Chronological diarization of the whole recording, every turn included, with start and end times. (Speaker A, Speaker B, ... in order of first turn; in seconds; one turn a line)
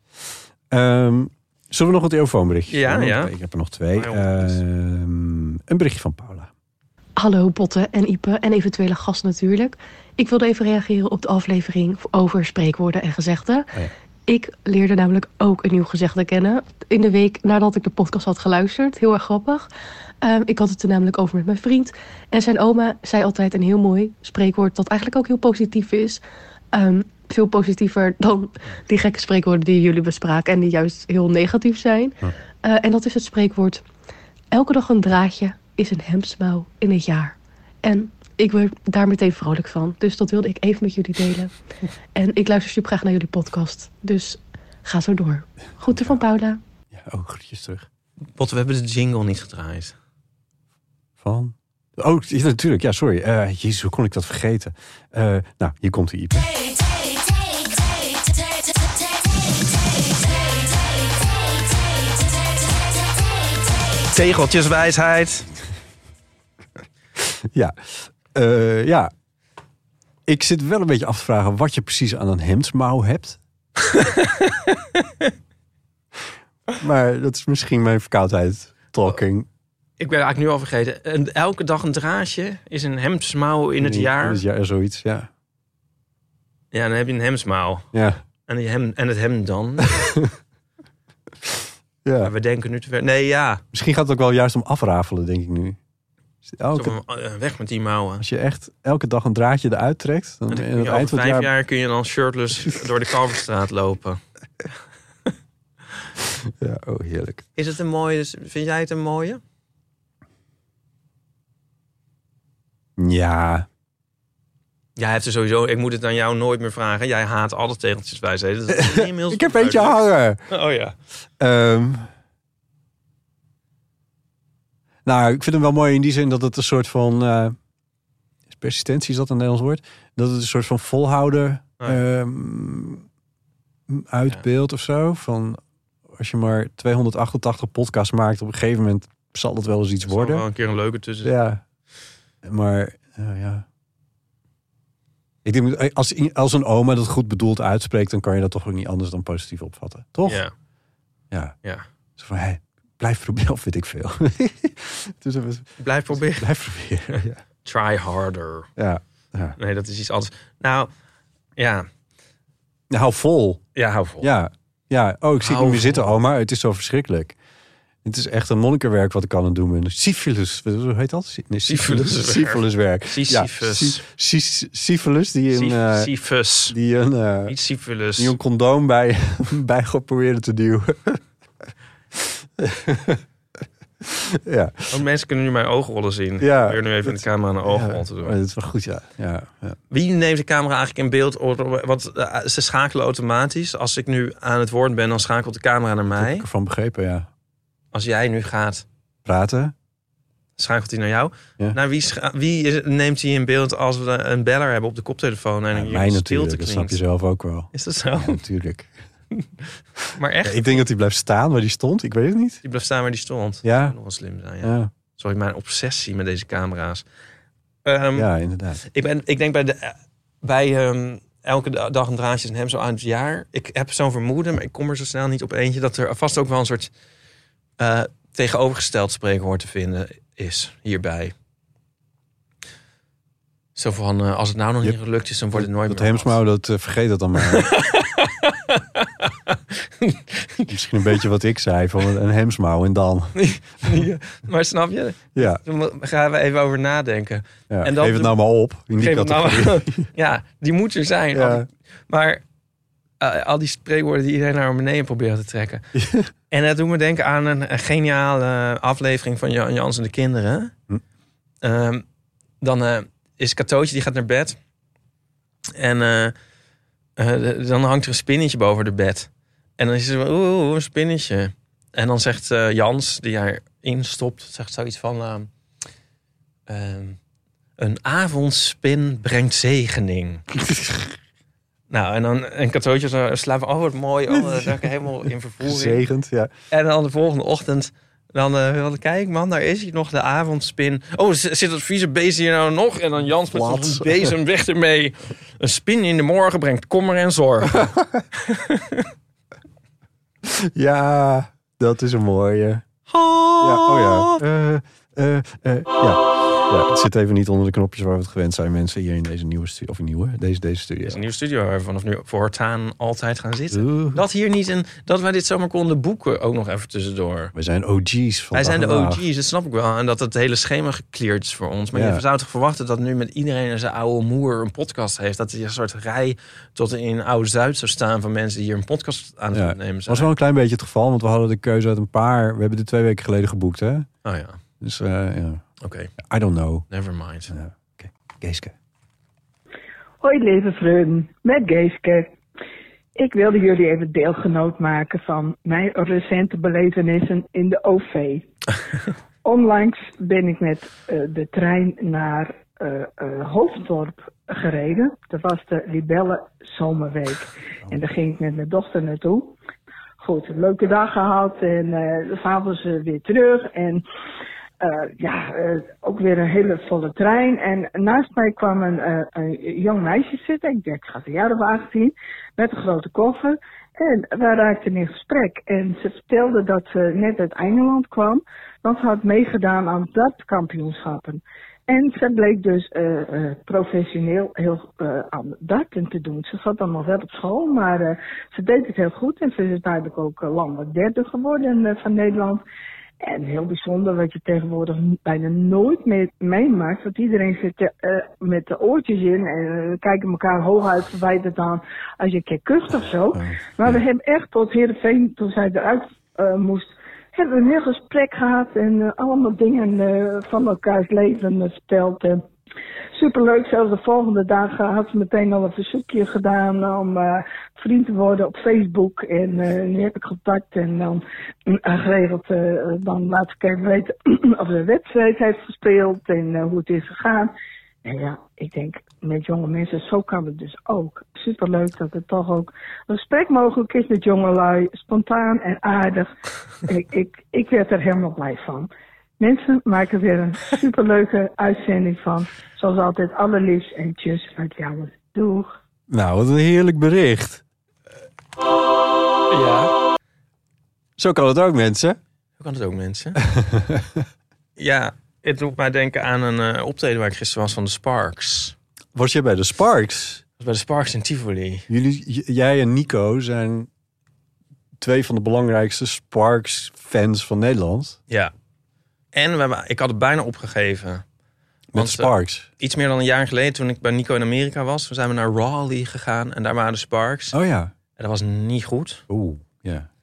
Speaker A: 0.7-6.5
Speaker B: 2.7-3.3
Speaker B: 3.9-4.6
Speaker C: 7.2-19.7
Speaker C: 20.2-26.2
Speaker C: 26.7-33.8
Speaker C: 34.5-41.5
Speaker C: 42.1-46.6
Speaker A: 45.9-46.2
Speaker A: 46.9-47.9
Speaker B: 48.4-49.9
Speaker A: 51.2-56.5
Speaker B: 64.1-65.5
Speaker A: 67.2-69.1
Speaker A: 70.2-73.4
Speaker B: 73.9-75.3
Speaker A: 76.8-79.5
Speaker B: 80.0-84.4
Speaker A: 83.8-85.3
Speaker B: 86.7-87.9
Speaker A: 87.9-88.2
Speaker B: 88.5-90.1
Speaker A: 90.0-90.3
Speaker A: 92.0-92.3
Speaker B: 92.2-93.6
Speaker A: 93.7-95.8
Speaker A: 96.5-97.0
Speaker B: 96.7-98.2
Speaker A: 98.2-101.5
Speaker B: 100.5-104.2
Speaker A: 106.6-107.4
Speaker B: 107.6-109.4
Speaker A: 113.0-113.7
Speaker B: 115.0-120.9
Speaker A: 118.7-120.4
Speaker A: 121.4-122.1
Speaker A: 125.0-127.5
Speaker A: 128.5-133.1
Speaker A: 133.9-135.6
Speaker A: 136.1-140.4
Speaker B: 140.0-141.3
Speaker A: 141.2-141.6
Speaker A: 142.4-143.6
Speaker A: 145.4-150.4
Speaker B: 150.2-150.5
Speaker A: 152.2-157.4
Speaker B: 155.8-156.5
Speaker B: 157.1-158.7
Speaker A: 158.8-159.6
Speaker B: 159.6-160.9
Speaker B: 161.6-161.9
Speaker A: 162.9-163.6
Speaker B: 163.8-164.3
Speaker A: 164.2-167.3
Speaker B: 165.4-166.1
Speaker A: 168.0-176.1
Speaker B: 171.7-174.0
Speaker B: 175.5-176.8
Speaker A: 176.7-177.6
Speaker B: 177.5-178.3
Speaker A: 178.2-181.2
Speaker A: 182.1-183.2
Speaker A: 184.0-185.0
Speaker B: 184.9-188.3
Speaker A: 186.4-189.8
Speaker B: 189.9-196.4
Speaker A: 196.2-197.3
Speaker B: 197.9-198.8
Speaker A: 199.2-199.7
Speaker B: 200.6-207.0
Speaker A: 205.7-208.9
Speaker B: 207.7-208.4
Speaker B: 210.1-210.8
Speaker A: 210.4-212.6
Speaker B: 212.6-217.0
Speaker A: 213.6-213.9
Speaker A: 214.6-214.9
Speaker B: 217.8-218.3
Speaker A: 218.1-218.8
Speaker B: 218.9-226.9
Speaker B: 227.8-231.3
Speaker B: 233.8-236.4
Speaker A: 235.5-237.7
Speaker B: 237.4-241.2
Speaker A: 240.7-243.9
Speaker B: 243.3-248.3
Speaker A: 245.3-245.6
Speaker A: 247.7-250.1
Speaker B: 249.0-252.4
Speaker A: 251.3-251.7
Speaker B: 253.2-255.8
Speaker A: 255.9-256.3
Speaker B: 256.5-260.7
Speaker B: 261.6-262.0
Speaker B: 262.6-264.6
Speaker B: 265.7-266.3
Speaker B: 267.2-275.5
Speaker B: 276.7-277.2
Speaker B: 277.8-280.4
Speaker A: 280.6-281.1
Speaker B: 281.9-286.0
Speaker A: 284.3-284.9
Speaker A: 285.6-286.5
Speaker B: 286.7-299.1
Speaker A: 293.5-294.3
Speaker A: 297.8-298.2
Speaker A: 300.4-302.8
Speaker B: 303.1-304.4
Speaker A: 303.6-311.2
Speaker B: 311.0-317.5
Speaker A: 313.7-314.2
Speaker A: 317.5-319.2
Speaker B: 318.5-330.3
Speaker A: 321.9-322.2
Speaker A: 329.5-334.1
Speaker B: 334.2-334.6
Speaker A: 334.8-335.6
Speaker B: 335.8-336.1
Speaker A: 336.2-336.9
Speaker B: 336.9-337.5
Speaker A: 337.5-338.7
Speaker D: 340.2-342.3
Speaker D: 343.1-348.5
Speaker D: 349.4-359.6
Speaker D: 360.2-364.0
Speaker D: 364.8-392.6
Speaker D: 393.2-412.4
Speaker A: 403.4-404.0
Speaker D: 413.1-427.5
Speaker D: 428.0-436.3
Speaker D: 436.9-445.7
Speaker A: 446.1-447.6
Speaker B: 449.5-449.9
Speaker A: 451.2-452.2
Speaker B: 452.6-453.4
Speaker A: 453.4-454.2
Speaker B: 454.8-458.7
Speaker A: 459.1-460.4
Speaker B: 460.6-461.9
Speaker A: 461.9-463.9
Speaker A: 465.0-468.2
Speaker B: 469.3-471.2
Speaker A: 471.9-472.7
Speaker B: 471.9-477.6
Speaker A: 477.5-477.9
Speaker B: 478.2-479.2
Speaker A: 479.3-480.1